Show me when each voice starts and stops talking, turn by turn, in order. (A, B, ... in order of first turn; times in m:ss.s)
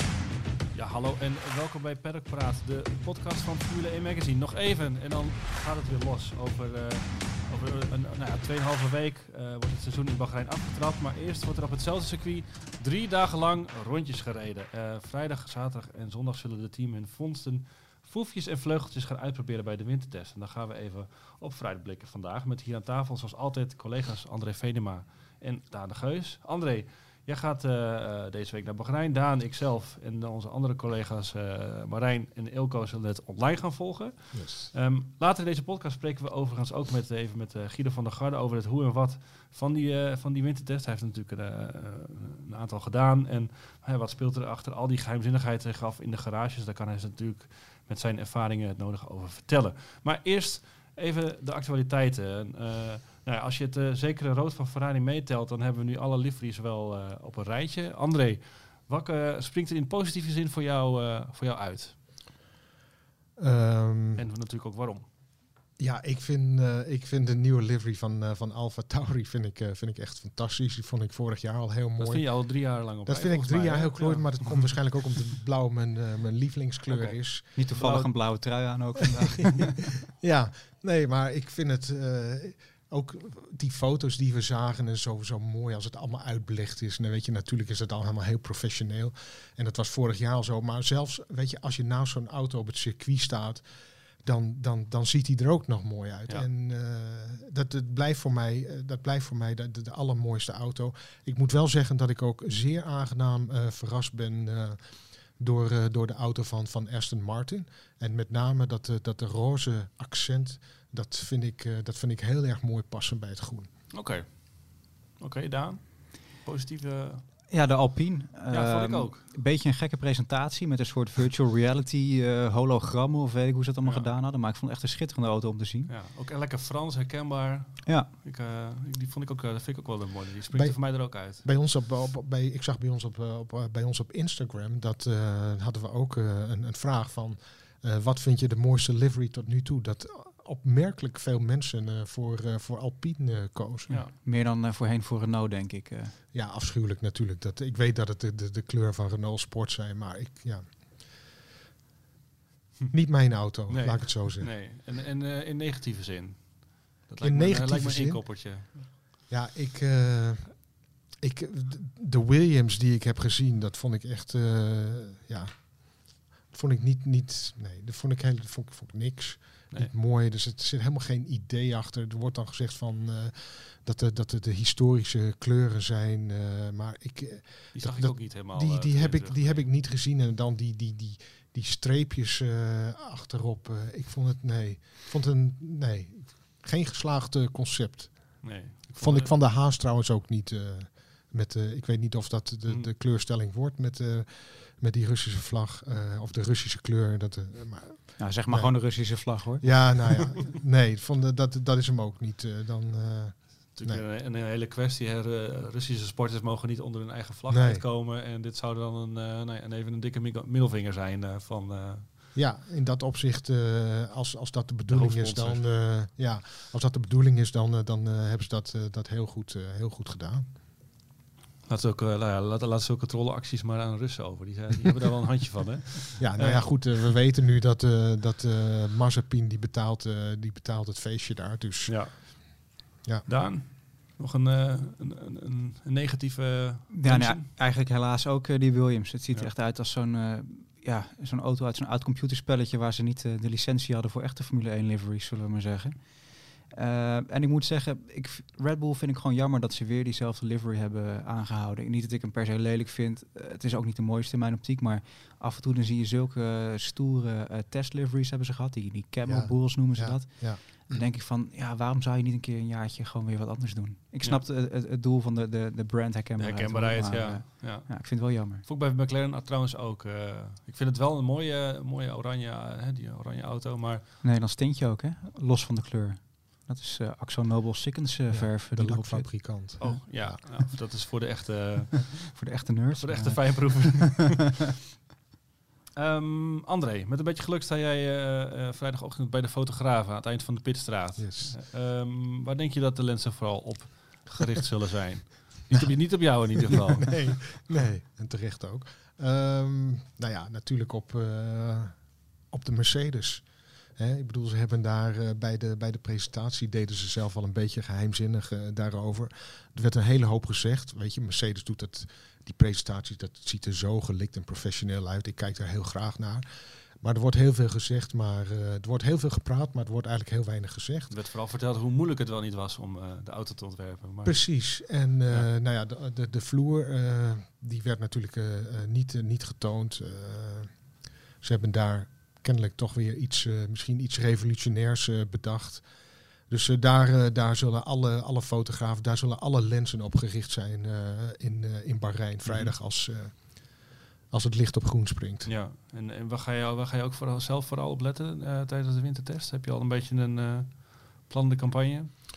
0:00.7-1:02.1 A
0:34.3-0:34.7 B
1:03.4-1:04.3 B
1:04.2-1:05.1 A
1:05.8-1:17.6 B
1:12.0-1:14.8 A
1:16.9-1:18.7 A
1:17.6-1:19.9 C
1:20.2-1:53.7 B
1:53.9-1:57.3 A
1:57.5-2:05.9 C
1:58.5-1:59.3 A
2:03.8-2:04.1 A
2:05.9-2:11.5 A
2:10.5-2:24.1 B
2:23.9-2:24.1 A
2:24.2-2:26.2 C
2:26.3-2:31.2 B
2:32.9-2:34.6 B
2:33.6-2:38.9 A
2:37.2-3:24.0 B
2:57.7-2:59.7 A
3:08.4-3:09.4 A
3:18.2-3:20.0 C
3:23.7-3:32.1 A
3:27.5-3:27.8 B
3:32.4-3:40.5 B
3:34.9-3:36.0 A
3:41.7-3:46.9 A
3:46.2-3:52.4 B
3:51.9-3:57.5 A
3:56.9-4:28.6 C
4:19.2-4:21.0 B
4:26.4-4:34.0 A
4:34.2-4:40.7 C
4:38.3-4:40.4 B
4:39.8-4:44.4 A
4:42.4-4:44.0 C
4:46.0-4:57.6 A
4:51.2-4:51.6 B
4:55.7-5:21.1 B
5:21.1-5:25.5 A
5:24.2-5:45.5 B
5:42.5-5:42.7 A
5:45.4-5:52.1 A